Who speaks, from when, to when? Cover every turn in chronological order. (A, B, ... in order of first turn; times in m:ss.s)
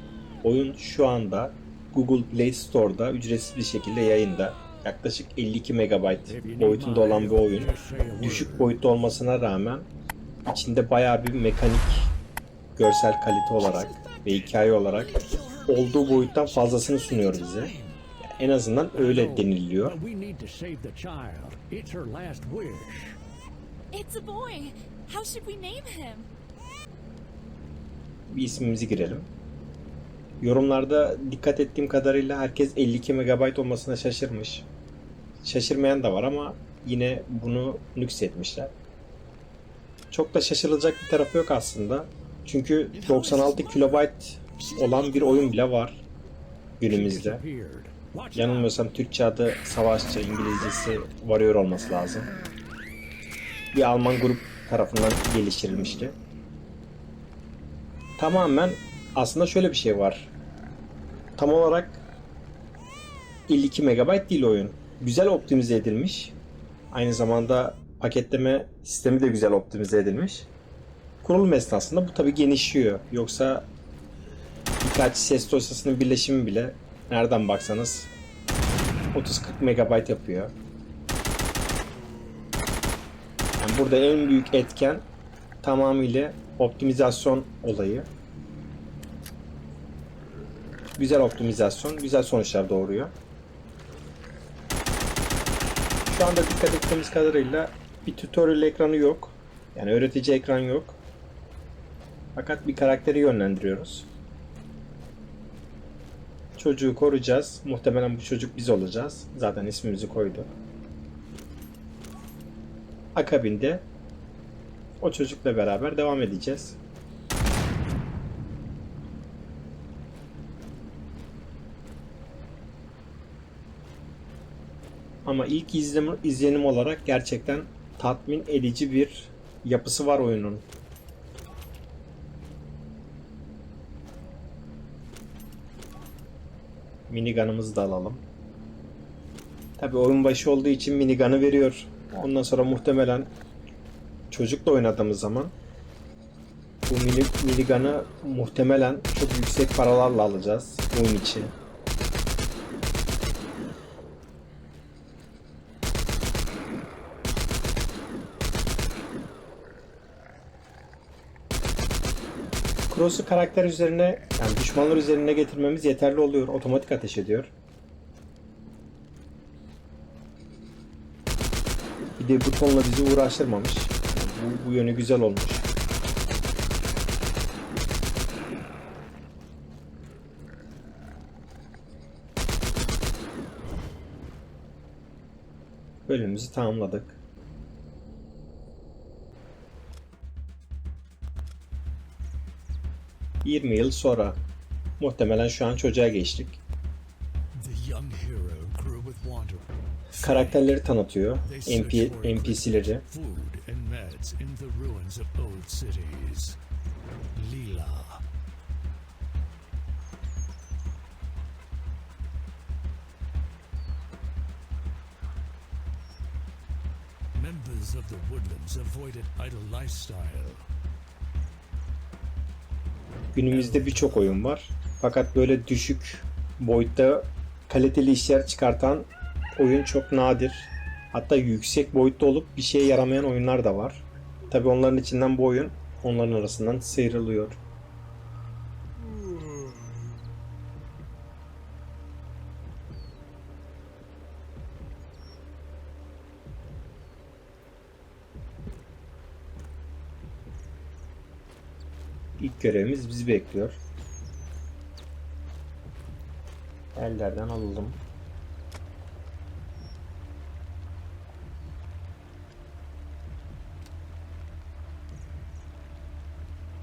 0:00.4-0:09.9 A
0:06.3-0:08.7 B
0:10.5-0:12.1 A
0:12.8-0:15.1 A
0:13.6-0:18.0 B
0:15.7-0:17.7 A
0:18.4-0:20.0 A
0:18.9-0:23.2 B
0:23.9-0:26.3 C
0:28.3-0:29.3 A
0:30.4-0:34.7 A
0:35.4-0:38.7 A
0:40.1-0:46.0 A
0:42.9-0:44.0 B
0:44.6-0:45.6 B
0:46.8-0:47.4 A
0:46.9-0:48.7 B
0:48.4-0:52.3 A
0:53.7-0:56.2 A
0:58.2-1:00.3 A
1:01.4-1:02.0 A
1:03.5-1:06.4 A
1:06.9-1:10.5 A
1:11.2-1:13.7 A
1:14.8-1:18.1 A
1:19.1-1:20.5 A
1:23.6-1:25.0 A
1:25.6-1:28.1 A
1:31.0-1:33.1 A
1:36.1-1:41.0 A
1:42.4-1:44.1 A
1:46.6-1:50.5 A
1:53.2-1:53.8 A
1:55.0-1:56.8 A
2:05.2-2:10.6 A
2:17.1-2:18.2 A
2:19.8-2:23.3 A
2:24.3-2:25.5 A
2:26.9-2:31.5 A
2:42.9-2:47.5 A
2:52.2-2:55.7 A
3:06.1-3:07.2 A
3:13.4-3:14.4 A
3:15.0-3:16.6 A
3:17.6-3:20.7 B
3:20.2-3:23.0 A
3:21.4-3:26.6 B
3:27.4-3:28.2 B
3:37.4-3:40.7 B
3:43.3-3:57.6 A
3:43.5-3:44.3 B
4:12.4-4:13.8 A
4:17.0-4:18.0 A